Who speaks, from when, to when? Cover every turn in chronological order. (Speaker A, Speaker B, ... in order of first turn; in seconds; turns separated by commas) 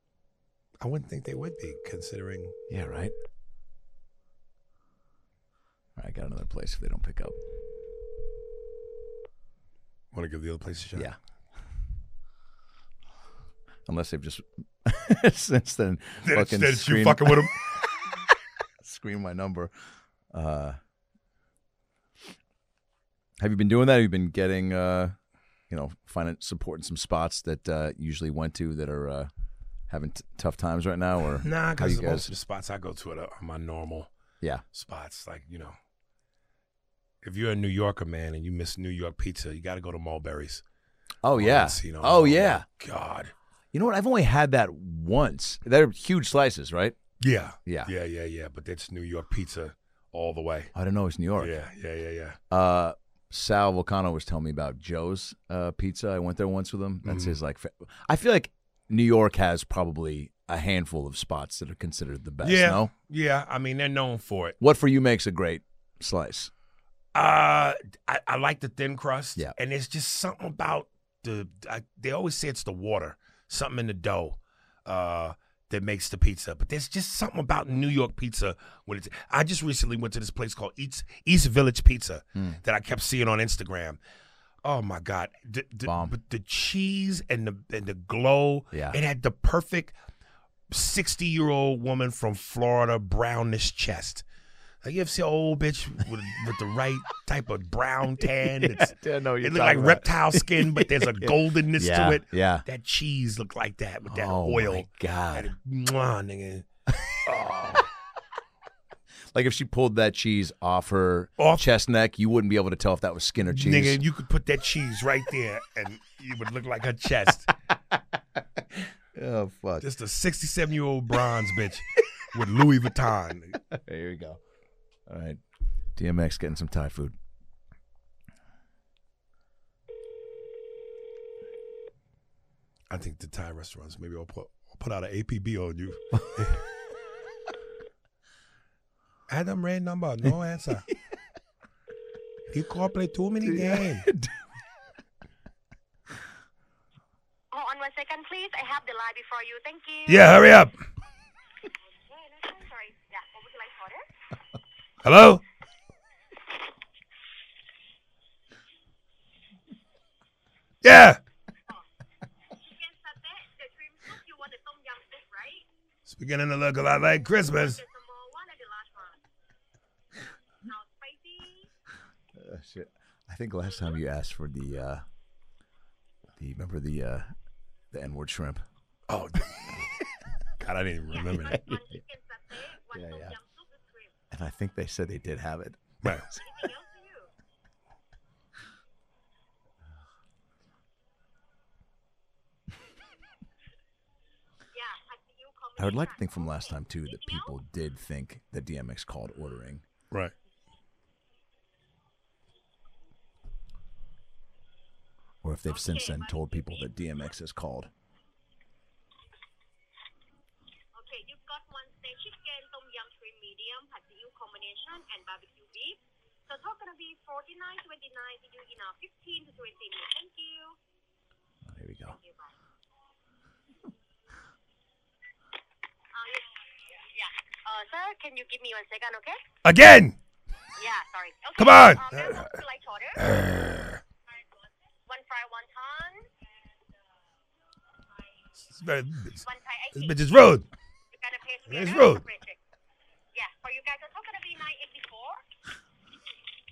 Speaker A: 0.8-2.5, Speaker B: 2.7-3.1, Speaker B: 6.0-7.3, Speaker A: 10.1-11.1, Speaker B: 13.9-17.7, Speaker A: 16.2-17.6, Speaker B: 18.8-19.7, Speaker B: 20.3-20.8, Speaker B: 23.4-25.1, Speaker B: 25.7-29.3, Speaker B: 29.9-32.3, Speaker A: 31.4-34.1, Speaker A: 34.7-35.7, Speaker A: 37.2-40.6, Speaker B: 41.2-42.6, Speaker A: 41.3-43.3, Speaker B: 43.7-47.0, Speaker A: 47.2-50.7, Speaker B: 47.6-47.9, Speaker B: 50.7-51.5, Speaker A: 51.4-52.4, Speaker B: 52.5-62.9, Speaker A: 57.0-57.4, Speaker A: 62.4-64.5, Speaker B: 64.6-66.5, Speaker A: 67.1-84.0, Speaker A: 84.6-89.9, Speaker B: 85.8-86.1, Speaker B: 88.7-89.0, Speaker A: 90.7-94.2, Speaker A: 94.8-106.7, Speaker B: 98.2-102.6, Speaker B: 104.1-105.5, Speaker B: 106.9-107.8, Speaker A: 107.3-107.8, Speaker B: 109.3-114.0, Speaker A: 111.4-111.6, Speaker A: 113.5-117.5, Speaker B: 118.8-119.8, Speaker A: 119.8-123.6, Speaker B: 123.7-124.4, Speaker B: 125.1-125.4, Speaker B: 126.0-127.2, Speaker A: 132.9-136.6, Speaker B: 136.2-136.6, Speaker A: 139.3-140.8, Speaker A: 142.5-144.1, Speaker B: 143.4-144.4, Speaker C: 147.5-150.3, Speaker A: 150.1-150.7, Speaker C: 152.1-154.1, Speaker A: 155.0-155.4, Speaker A: 160.8-161.2, Speaker C: 162.5-165.6, Speaker A: 166.1-167.8, Speaker C: 167.4-169.2, Speaker C: 170.6-171.7, Speaker B: 172.3-175.0, Speaker B: 176.4-177.3, Speaker B: 177.9-178.6, Speaker A: 179.1-179.8, Speaker A: 180.6-181.6, Speaker B: 181.3-182.0, Speaker C: 181.4-184.1, Speaker B: 182.9-183.3, Speaker B: 184.3-186.7, Speaker A: 186.0-186.3, Speaker C: 186.3-187.3, Speaker C: 194.7-197.6, Speaker B: 195.8-199.8, Speaker B: 205.4-207.9, Speaker C: 205.7-207.0, Speaker C: 210.9-220.8, Speaker B: 221.7-222.2, Speaker C: 222.1-222.5, Speaker C: 226.1-229.4, Speaker A: 229.6-230.2, Speaker C: 230.8-233.2, Speaker A: 231.6-232.5, Speaker A: 233.2-234.0, Speaker C: 235.1-236.2, Speaker A: 238.7-239.4, Speaker C: 239.4-240.2, Speaker A: 239.9-240.7, Speaker C: 241.1-242.6, Speaker A: 241.7-242.2, Speaker C: 243.3-245.4